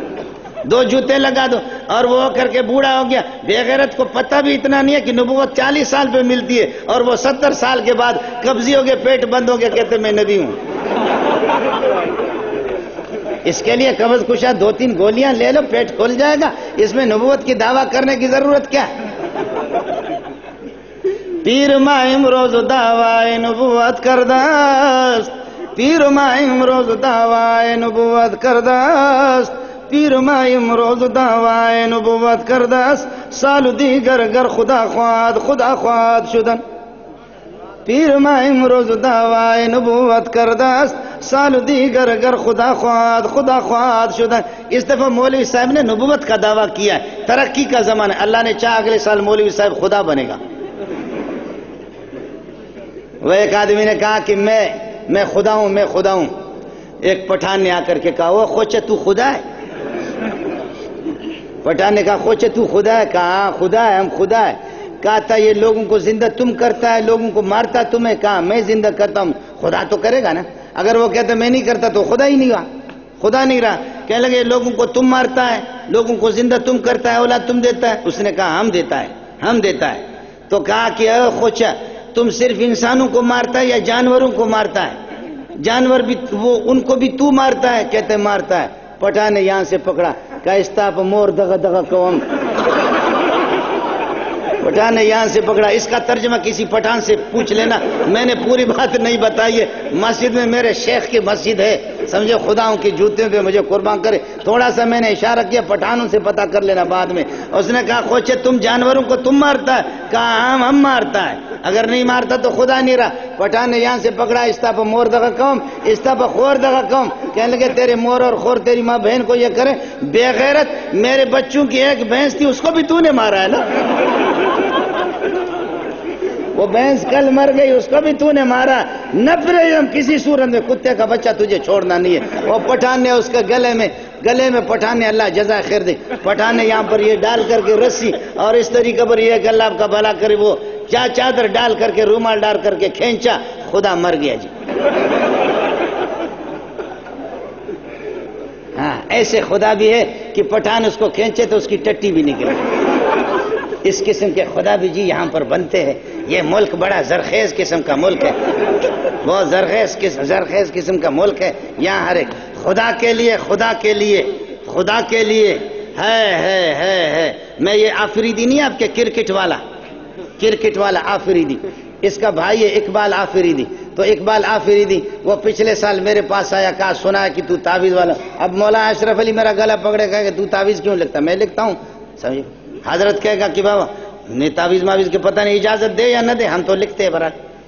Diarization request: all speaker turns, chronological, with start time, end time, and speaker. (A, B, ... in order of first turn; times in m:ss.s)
0:00.6-0:10.6 A
0:13.4-0:18.9 A
0:21.4-0:36.6 A
0:37.8-0:50.4 A
0:53.2-0:56.3 A
0:57.0-0:59.4 A
1:01.6-1:12.6 A
1:13.2-1:25.0 A
1:25.6-1:32.2 A
1:34.6-2:03.6 A
2:06.5-2:24.5 A
2:28.8-2:32.6 A
2:33.8-2:38.3 A
2:39.2-2:49.6 A
2:50.4-3:07.3 A